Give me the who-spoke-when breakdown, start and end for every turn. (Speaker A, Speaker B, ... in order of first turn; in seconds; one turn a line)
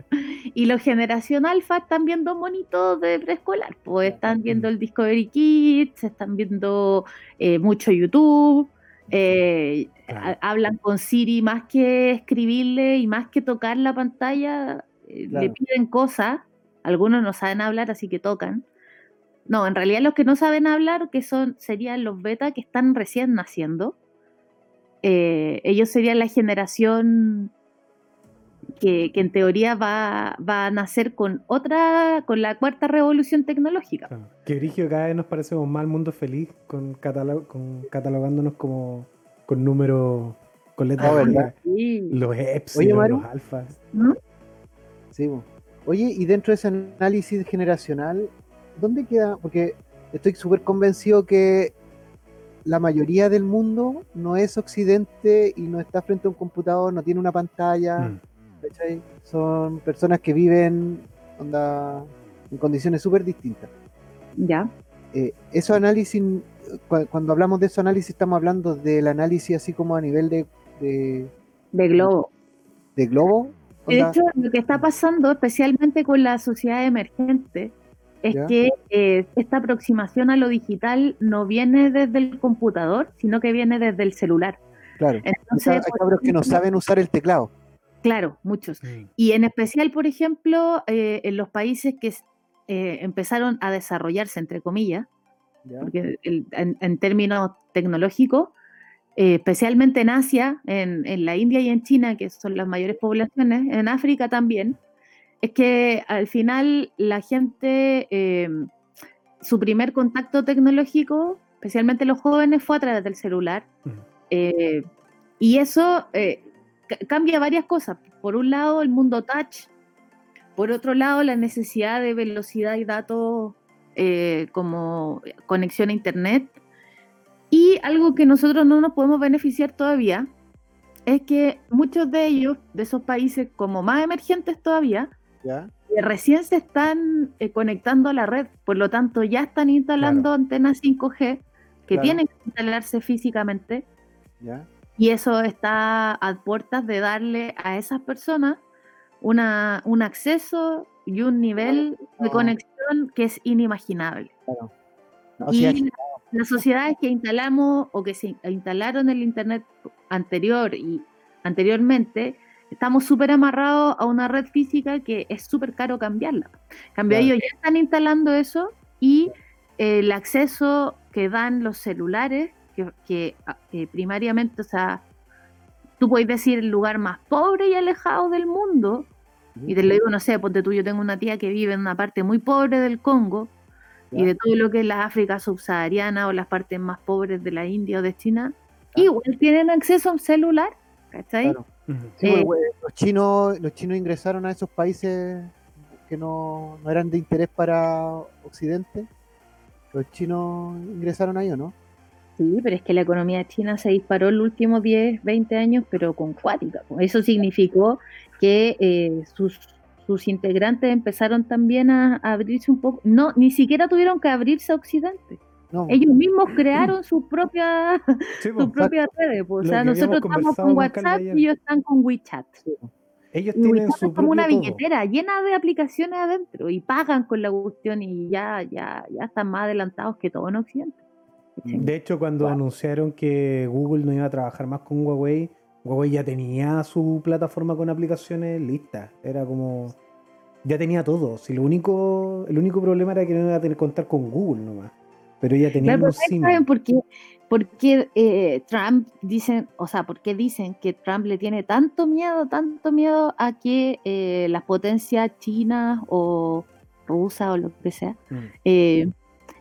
Speaker A: 0.1-18.6
Speaker B: 4.0-4.4
Speaker C: 10.1-10.3
Speaker B: 15.3-15.6
Speaker A: 19.5-23.9
Speaker A: 25.0-27.5
Speaker A: 28.8-34.1
Speaker C: 34.1-41.5
Speaker B: 41.0-41.5
Speaker A: 41.0-42.1
Speaker C: 42.1-43.7
Speaker B: 42.7-43.2
Speaker B: 45.1-51.7
Speaker B: 52.6-63.7
Speaker A: 64.4-64.7
Speaker B: 65.1-71.3
Speaker A: 71.7-72.3
Speaker B: 73.0-74.2
Speaker A: 73.9-84.6
Speaker B: 85.0-87.5
Speaker A: 85.2-86.6
Speaker A: 88.0-95.1
Speaker C: 88.8-89.1
Speaker B: 95.6-95.9
Speaker A: 95.8-98.5
Speaker A: 99.2-104.8
Speaker A: 105.4-108.7
Speaker A: 109.4-113.7
Speaker A: 114.3-114.8
Speaker A: 115.4-119.7
Speaker A: 120.5-126.5
Speaker A: 127.5-130.3
Speaker A: 131.1-135.1
Speaker B: 135.4-135.7
Speaker A: 135.9-143.8
Speaker C: 140.0-140.3
Speaker B: 141.9-142.2
Speaker B: 144.4-144.7
Speaker A: 145.0-148.6
Speaker A: 149.2-154.3
Speaker B: 151.7-152.5
Speaker B: 155.4-156.2
Speaker A: 155.5-175.0
Speaker B: 167.1-167.3
Speaker A: 176.0-179.1
Speaker A: 179.7-183.5
Speaker A: 184.1-191.6
Speaker C: 191.9-192.1
Speaker B: 192.2-199.1
Speaker A: 192.2-192.5
Speaker B: 199.9-201.7
Speaker A: 202.4-222.6
Speaker B: 215.7-216.0
Speaker C: 218.4-218.9
Speaker C: 219.6-221.4
Speaker B: 222.6-222.9
Speaker C: 223.3-224.8
Speaker A: 223.6-231.0
Speaker A: 231.6-231.9
Speaker C: 231.8-240.0
Speaker C: 240.6-246.6
Speaker A: 245.8-259.1